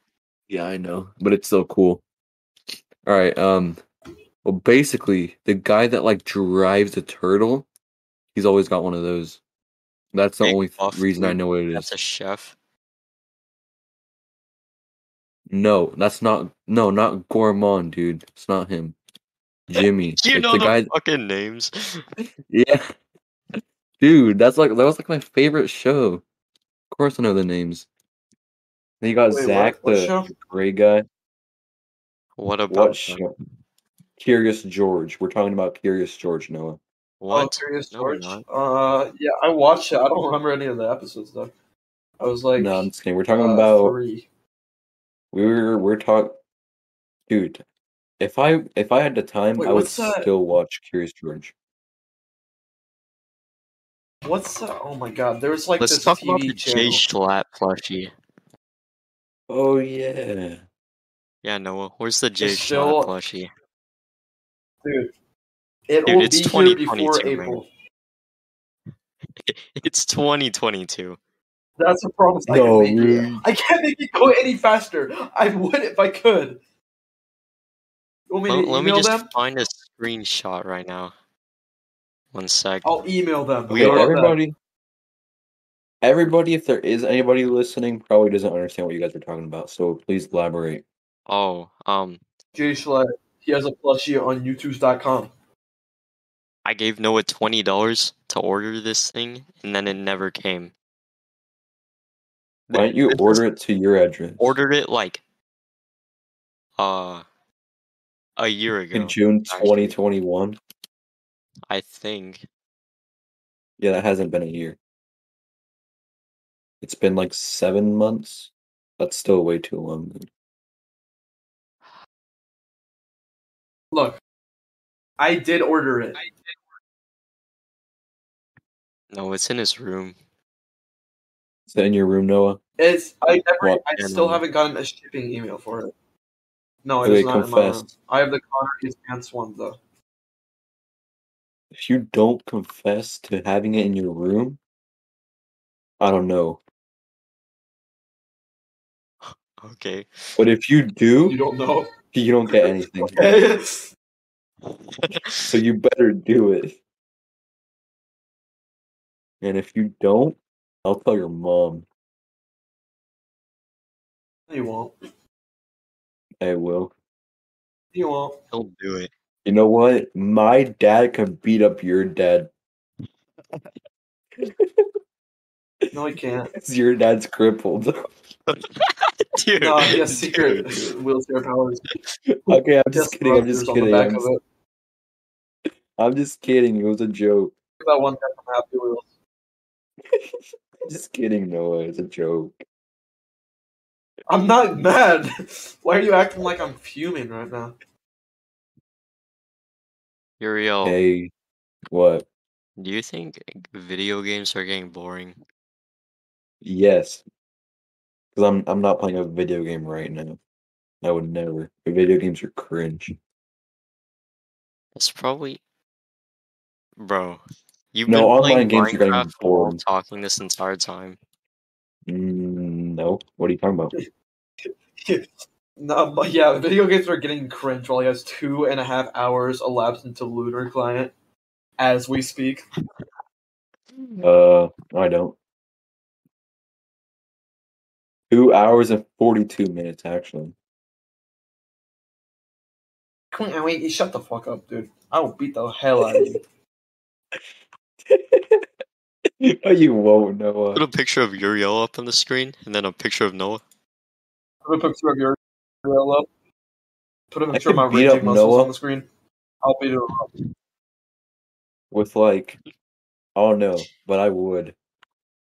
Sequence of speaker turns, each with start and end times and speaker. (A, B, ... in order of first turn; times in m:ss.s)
0:00.5-0:02.0 A
0:03.0-0:03.8 A
0:04.4-0:07.6 A
0:08.3-0:09.4 A
0:10.1-0:11.9 A
0:10.4-0:12.6 B
0:15.5-0:19.0 A
0:19.7-0:20.9 A
0:20.2-0:22.0 B
0:22.5-0:22.9 A
0:24.0-0:26.2 A
0:26.9-0:27.9 A
0:29.0-0:31.1 A
0:29.3-0:30.3 C
0:32.4-0:33.2 B
0:32.7-0:33.3 A
0:34.2-0:36.8 A
0:37.2-0:38.4 B
0:37.3-0:41.5 C
0:42.2-0:44.3 C
0:42.6-0:44.0 A
0:45.3-0:46.4 A
0:47.3-0:47.6 A
0:48.2-0:51.5 A
0:49.6-0:50.3 C
0:54.2-0:57.0 C
0:55.8-0:58.1 B
0:59.5-1:00.6 A
1:01.4-1:03.5 B
1:02.4-1:03.1 C
1:04.8-1:05.1 C
1:05.9-1:07.7 C
1:06.1-1:07.6 B
1:09.4-1:11.2 B
1:11.8-1:16.6 C
1:12.5-1:13.4 A
1:18.3-1:19.3 C
1:18.5-1:21.1 B
1:22.3-1:22.9 B
1:22.8-1:24.4 C
1:23.7-1:24.0 B
1:23.8-1:24.6 A
1:26.0-1:30.8 A
1:31.3-1:32.2 B
1:32.6-1:35.3 C
1:36.6-1:40.7 B
1:42.7-1:43.4 B
1:42.7-1:44.6 A
1:44.4-1:45.2 B
1:46.8-1:47.2 B
1:48.4-1:50.0 B
1:48.9-1:50.6 A
1:51.7-1:52.4 B
1:53.8-1:54.8 A
1:56.8-2:00.3 A
2:03.9-2:04.2 C
2:05.2-2:06.3 C
2:09.1-2:10.2 B
2:11.7-2:12.6 A
2:12.8-2:15.9 C
2:14.0-2:14.4 B
2:16.8-2:19.8 C
2:17.0-2:17.9 A
2:21.7-2:24.6 A
2:26.0-2:26.6 A
2:29.2-2:30.1 B
2:30.4-2:31.4 A
2:31.3-2:31.9 C
2:32.1-2:33.2 A
2:32.6-2:33.9 C
2:34.6-2:35.6 B
2:35.5-2:36.8 A
2:39.4-2:41.9 A
2:44.5-2:44.9 C
2:46.4-2:46.9 A
2:47.9-2:48.4 C
2:48.5-2:49.1 B
2:49.4-2:52.5 A
2:54.4-2:54.9 A
2:55.9-2:56.5 C
2:56.5-2:58.0 A
2:58.5-3:00.8 B
2:59.6-3:01.9 C
3:02.4-3:04.2 A
3:02.5-3:04.4 C
3:06.0-3:07.5 A
3:07.8-3:09.1 C
3:10.9-3:12.6 A
3:14.3-3:17.8 C
3:20.4-3:21.0 B
3:20.8-3:21.3 A
3:21.9-3:22.3 A
3:22.8-3:25.4 B
3:26.6-3:27.2 A
3:28.4-3:30.4 A
3:31.0-3:33.1 A
3:35.0-3:35.6 B
3:37.0-3:37.4 B
3:37.9-3:41.2 B
3:38.1-3:39.8 A
3:42.1-3:43.9 A
3:45.0-3:51.1 C
3:51.8-3:52.6 C
3:54.2-3:55.4 A
3:58.3-4:00.6 A
4:03.3-4:06.4 C
4:06.0-4:06.3 A
4:08.1-4:08.6 A
4:09.4-4:10.8 A
4:10.7-4:13.6 B
4:14.6-4:16.3 C
4:17.3-4:19.1 C
4:17.5-4:18.7 A
4:19.6-4:20.3 C
4:21.9-4:22.6 A
4:23.4-4:24.8 A